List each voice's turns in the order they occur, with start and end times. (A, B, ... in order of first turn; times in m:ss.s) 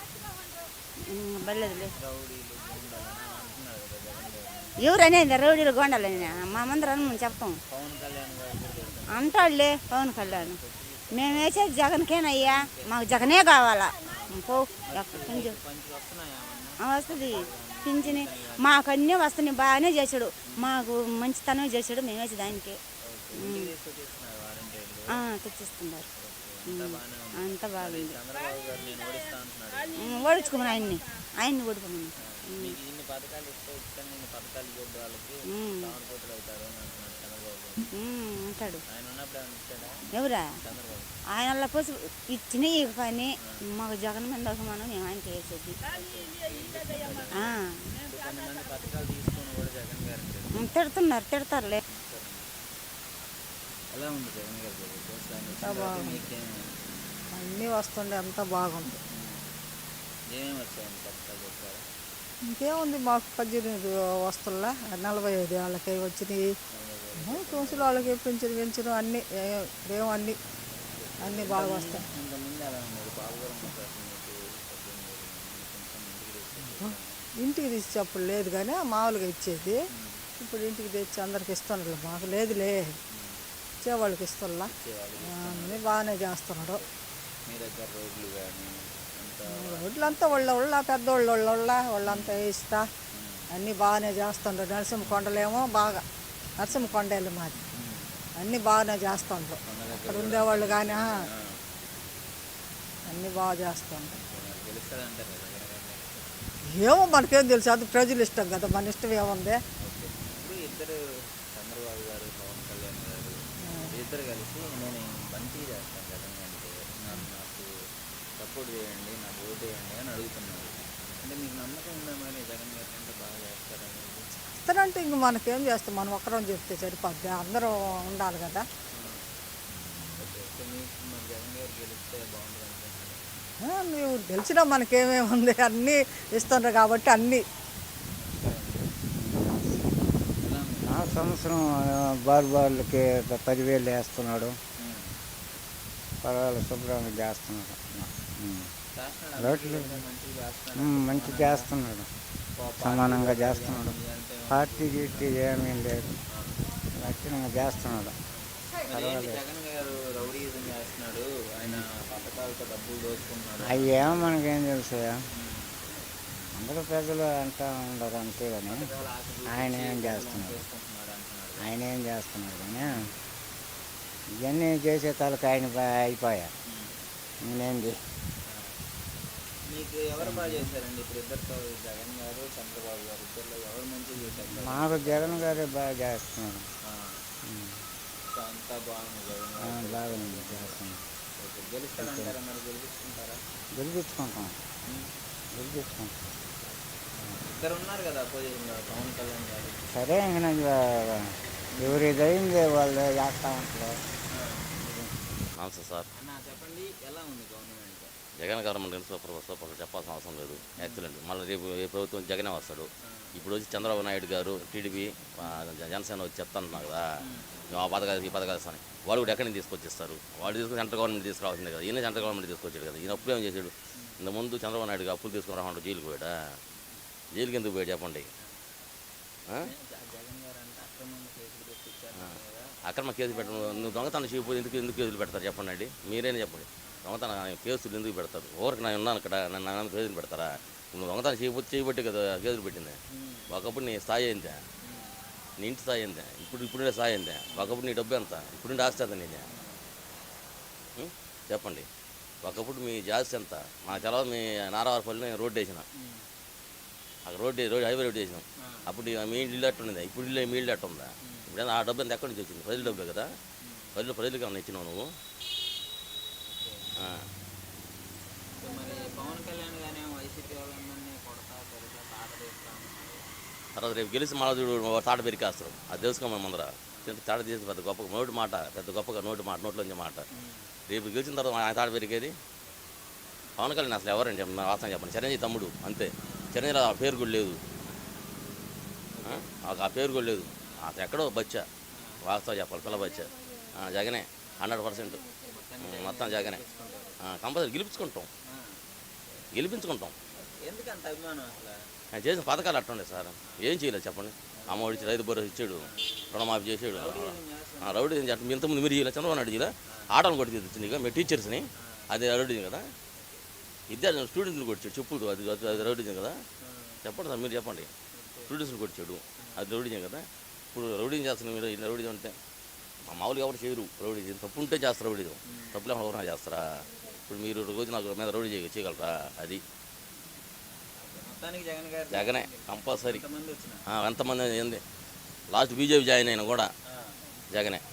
0:01.1-0:01.9 A
0:01.8-0:04.8 B
0:04.8-0:07.5 A
0:05.4-0:07.2 B
0:07.7-0:11.7 B
0:09.1-0:10.6 A
0:11.1-0:15.6 A
0:12.4-0:13.3 B
0:14.0-0:18.8 B
0:16.8-0:22.8 A
0:23.1-0:25.3 B
0:23.3-0:23.7 A
0:25.1-0:26.0 A
0:26.1-0:30.0 B
0:26.7-0:28.2 A
0:30.0-0:32.8 A
0:32.2-0:37.9 B
0:35.5-0:35.9 A
0:37.9-0:38.8 A
0:38.9-0:40.0 B
0:40.1-0:40.4 A
0:40.6-0:41.1 B
0:41.4-0:45.8 A
0:45.9-0:50.7 B
0:47.3-0:47.7 A
0:50.5-0:51.8 A
0:51.9-0:52.5 B
0:53.9-0:56.7 B
0:55.6-0:56.1 C
0:57.3-0:59.0 C
0:59.1-0:59.4 B
1:00.3-1:01.8 B
1:02.5-1:06.4 C
1:06.7-1:08.2 B
1:07.2-1:10.4 C
1:10.7-1:17.3 B
1:11.2-1:12.0 C
1:16.8-1:19.8 C
1:19.9-1:20.3 B
1:20.4-1:22.9 C
1:23.1-1:23.4 B
1:23.8-1:24.7 C
1:24.7-1:25.9 B
1:25.3-1:26.8 C
1:27.5-1:30.4 B
1:29.5-1:32.9 C
1:32.0-1:32.4 B
1:33.1-1:33.5 B
1:33.5-1:36.0 C
1:35.0-1:35.3 B
1:36.6-1:37.6 C
1:37.7-1:38.1 B
1:38.4-1:41.2 C
1:39.7-1:41.6 B
1:43.1-1:44.2 C
1:44.2-1:46.4 B
1:46.8-1:49.6 C
1:49.8-1:51.0 B
1:51.5-1:57.7 B
1:58.4-2:04.3 B
2:04.5-2:08.6 C
2:08.9-2:09.2 B
2:10.1-2:13.4 B
2:13.6-2:17.4 C
2:18.2-2:18.9 B
2:19.2-2:19.9 D
2:20.0-2:21.2 B
2:20.8-2:24.6 D
2:24.8-2:25.2 B
2:26.2-2:28.7 D
2:29.0-2:31.7 B
2:29.4-2:30.0 D
2:30.8-2:32.1 D
2:32.6-2:35.4 B
2:32.8-2:33.9 D
2:34.5-2:36.2 D
2:36.9-2:38.2 D
2:38.3-2:44.3 B
2:38.9-2:39.4 D
2:43.6-2:45.2 D
2:45.3-2:45.8 B
2:46.5-2:48.9 D
2:48.7-2:51.7 B
2:49.5-2:50.6 D
2:51.6-2:53.1 D
2:52.8-2:53.1 B
2:54.4-2:56.5 D
2:56.7-2:57.0 B
2:57.4-2:58.0 D
2:58.5-2:58.7 B
2:59.7-3:05.7 B
3:00.2-3:00.7 D
3:04.5-3:06.6 D
3:06.9-3:07.2 B
3:07.4-3:07.8 D
3:08.3-3:10.8 B
3:09.6-3:11.0 D
3:11.4-3:13.4 B
3:12.0-3:12.3 D
3:13.7-3:14.6 D
3:15.5-3:16.2 D
3:17.4-3:19.8 B
3:19.9-3:24.0 D
3:21.7-3:22.0 B
3:24.3-3:24.7 B
3:24.8-3:25.1 D
3:25.6-3:26.1 E
3:26.1-3:28.1 B
3:28.4-3:37.0 E
3:30.6-3:31.0 B
3:33.1-3:33.4 B
3:37.2-3:37.5 B
3:37.7-3:46.3 E
3:47.3-3:48.3 E
3:49.6-3:52.6 B
3:52.9-4:03.0 E
4:03.1-4:03.4 B
4:03.5-4:04.6 E
4:04.8-4:05.2 B
4:05.6-4:09.4 E
4:07.5-4:07.8 B
4:09.5-4:09.8 B
4:11.0-4:11.9 E
4:12.4-4:15.8 E
4:16.0-4:16.3 B
4:17.2-4:23.3 E
4:23.6-4:23.9 B
4:23.9-4:25.1 E
4:26.5-4:26.9 B
4:28.6-4:33.3 B
4:33.7-4:40.2 E
4:40.3-4:40.7 B
4:40.9-4:42.3 E
4:43.6-4:47.6 E
4:46.2-4:46.6 B
4:49.1-4:49.4 B
4:49.2-4:51.7 E
4:50.3-4:50.8 B
4:51.9-4:52.2 B
4:52.2-4:55.2 E
4:55.4-4:57.1 B
4:55.8-4:56.6 E
4:57.2-4:58.3 E
4:58.5-4:59.4 B
4:59.5-5:00.1 E
5:00.4-5:01.7 B
5:02.1-5:12.9 E
5:04.5-5:05.0 B
5:05.8-5:06.2 B
5:06.9-5:08.1 B
5:13.1-5:13.4 B
5:13.9-5:16.4 E
5:16.6-5:17.0 B
5:17.0-5:17.9 E
5:18.1-5:18.6 B
5:18.5-5:22.4 E
5:19.4-5:19.7 B
5:23.1-5:29.6 E
5:25.5-5:25.8 B
5:31.0-5:33.8 B
5:32.1-5:33.2 E
5:33.9-5:34.8 E
5:35.5-5:36.7 E
5:36.9-5:37.2 B
5:37.5-5:37.8 E